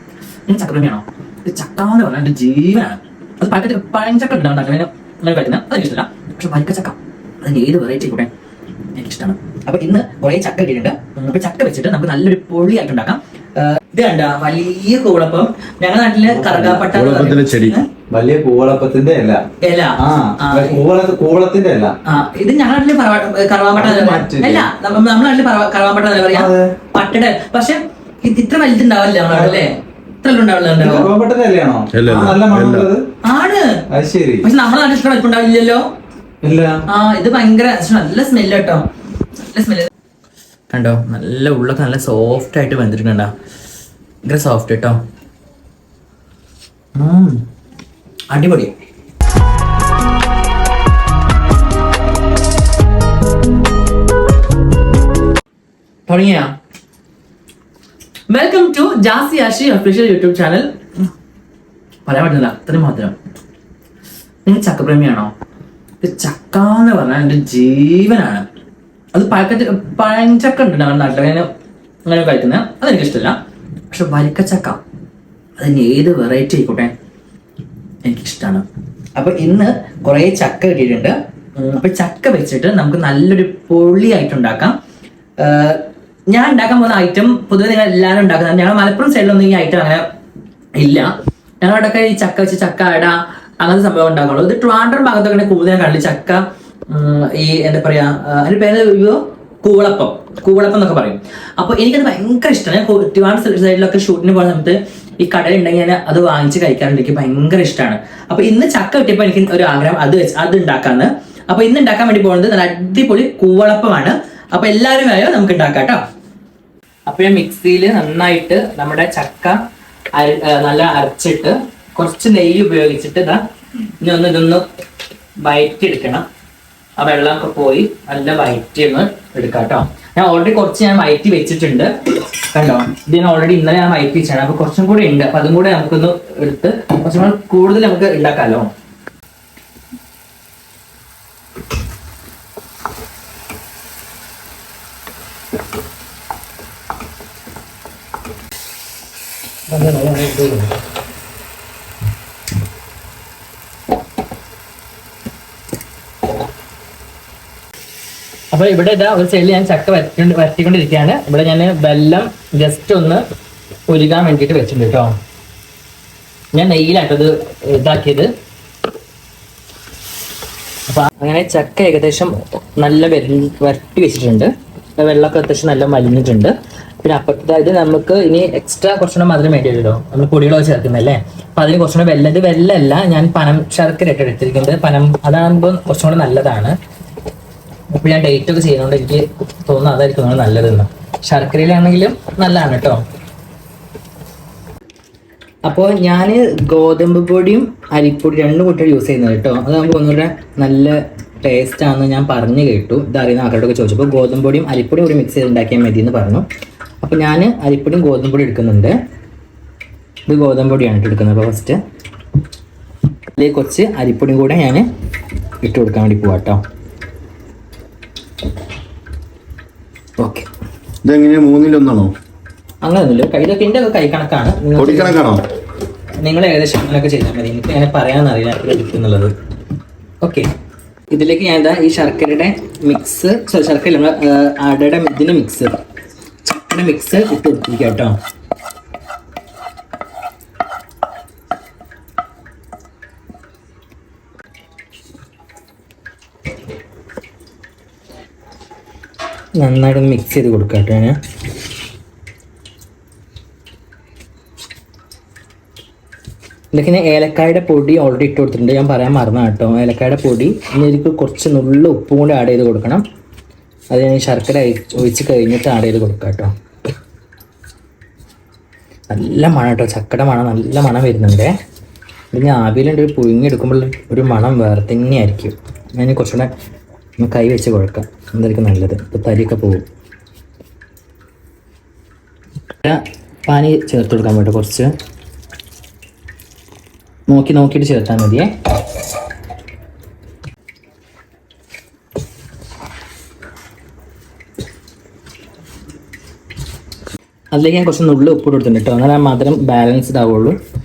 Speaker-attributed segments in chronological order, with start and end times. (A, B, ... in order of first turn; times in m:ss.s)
0:00.5-0:08.3 A
0:08.9-0:17.8 A
0:16.3-0:16.9 B
0:16.9-0:17.8 C
0:18.1-0:19.4 B
0:19.6-0:20.8 A
0:20.0-0:22.0 B
0:22.0-0:31.1 A
0:23.8-0:24.7 B
0:26.3-0:26.7 B
0:29.3-0:29.6 B
0:30.8-0:33.1 B
0:31.9-0:32.9 C
0:33.2-0:33.8 A
0:33.9-0:34.5 B
0:34.4-0:35.8 A
0:36.4-0:36.8 B
0:36.9-0:38.9 A
0:39.4-0:39.9 A
0:40.7-0:43.3 A
0:44.2-0:45.0 A
0:46.9-0:47.4 A
0:48.3-0:48.7 A
0:56.1-0:56.6 A
0:58.3-1:00.7 A
1:02.0-1:03.2 A
1:04.4-1:05.3 A
1:06.0-1:08.4 A
1:09.1-1:11.5 A
1:12.0-1:13.4 A
1:13.9-1:14.8 A
1:15.6-1:16.9 A
1:18.0-1:24.7 A
1:25.4-1:30.0 A
1:30.8-1:56.0 A
1:57.1-1:59.6 A
2:00.1-2:03.4 A
2:04.0-2:04.6 A
2:05.4-2:06.3 A
2:07.0-2:11.9 A
2:12.5-2:18.7 A
2:29.7-2:30.7 A
2:38.5-2:43.2 A
2:43.9-2:45.2 A
2:46.5-2:48.3 A
2:50.9-3:06.8 A
3:07.9-3:13.0 A
3:15.6-3:26.4 A
3:27.0-3:28.9 A
3:30.3-3:31.8 A
3:33.4-3:34.9 A
3:35.6-3:36.6 A
3:40.2-3:40.5 A
3:41.0-3:42.1 C
3:42.8-3:45.3 A
3:44.8-3:45.4 C
3:46.2-3:49.3 A
3:50.2-3:50.5 A
3:51.1-3:55.8 A
3:56.7-3:58.2 A
4:09.6-4:11.2 A
4:16.7-4:23.0 A
4:23.9-4:26.5 A
4:29.1-4:31.5 A
4:32.3-4:36.5 A
4:37.2-4:39.8 A
4:42.8-4:44.9 A
4:47.3-4:48.5 A
4:57.5-5:00.6 A